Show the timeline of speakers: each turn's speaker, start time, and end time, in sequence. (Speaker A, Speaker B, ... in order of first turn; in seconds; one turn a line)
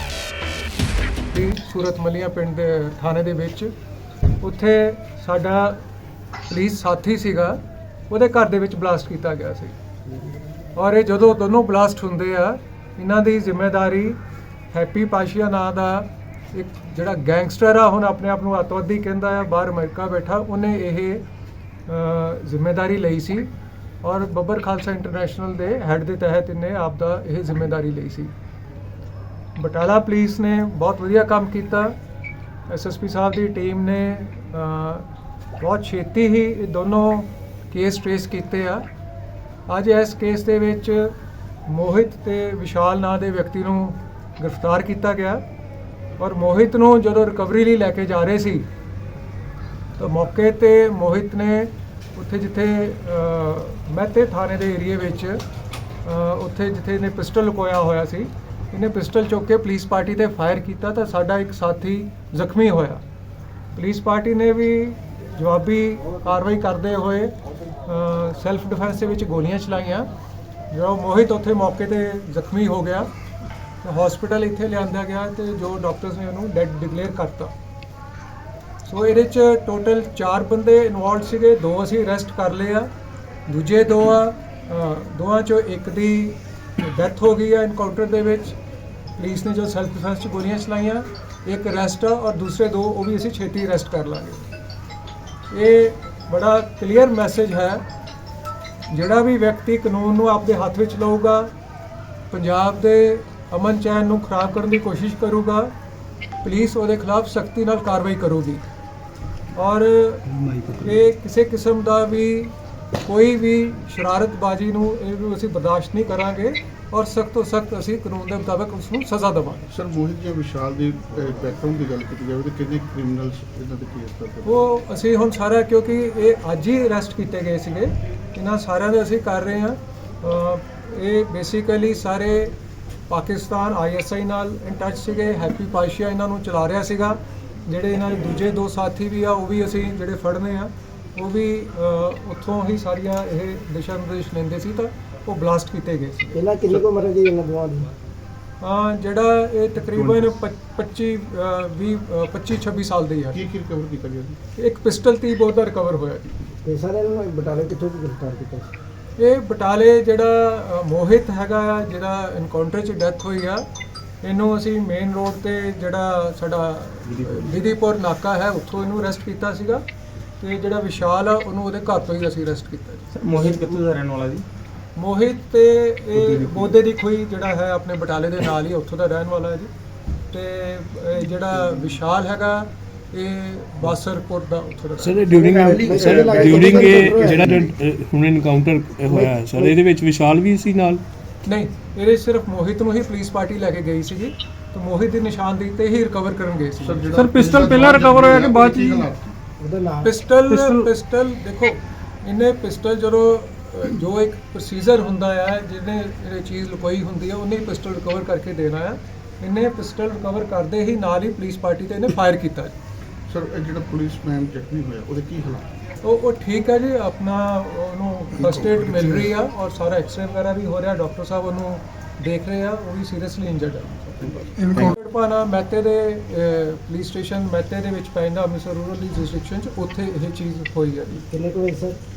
Speaker A: 1.3-3.7
Speaker A: 4.4-5.8
Speaker A: 6.5-9.8
Speaker A: 10.8-14.2
Speaker A: 14.7-21.2
Speaker A: 21.9-23.5
Speaker A: 24.0-28.3
Speaker A: 29.6-32.0
Speaker A: 32.7-38.9
Speaker A: 39.7-41.1
Speaker A: 41.7-45.4
Speaker A: 46.2-48.7
Speaker A: 50.0-55.4
Speaker A: 56.0-63.0
Speaker A: 63.8-70.1
Speaker A: 70.7-73.1
Speaker A: 73.8-77.5
Speaker A: 78.8-82.9
Speaker A: 83.5-88.6
Speaker A: 89.2-94.5
Speaker A: 95.5-97.8
Speaker A: 98.9-101.5
Speaker A: 102.3-105.7
Speaker A: 106.4-108.7
Speaker A: 109.6-119.7
Speaker B: 119.7-124.6
Speaker A: 124.4-132.6
Speaker A: 133.1-146.4
Speaker C: 146.3-147.9
Speaker A: 148.6-153.4
Speaker B: 153.3-154.4
Speaker A: 154.6-156.4
Speaker C: 156.6-158.7
Speaker A: 159.2-163.6
Speaker A: 164.2-169.8
Speaker D: 167.1-167.5
Speaker A: 170.4-173.7
Speaker D: 173.1-174.4
Speaker A: 175.0-179.7
Speaker D: 176.2-176.7
Speaker A: 180.3-185.2
Speaker E: 185.0-191.0
Speaker C: 185.3-187.6
Speaker D: 185.5-187.1
Speaker B: 187.2-187.6
Speaker C: 189.1-189.8
Speaker A: 191.4-198.5
Speaker B: 196.8-199.4
Speaker E: 197.1-199.0
Speaker C: 199.6-200.1
Speaker A: 200.0-212.8
Speaker E: 200.5-200.9
Speaker B: 213.3-215.7
Speaker A: 216.0-231.2
Speaker B: 218.4-219.3
Speaker C: 231.1-232.0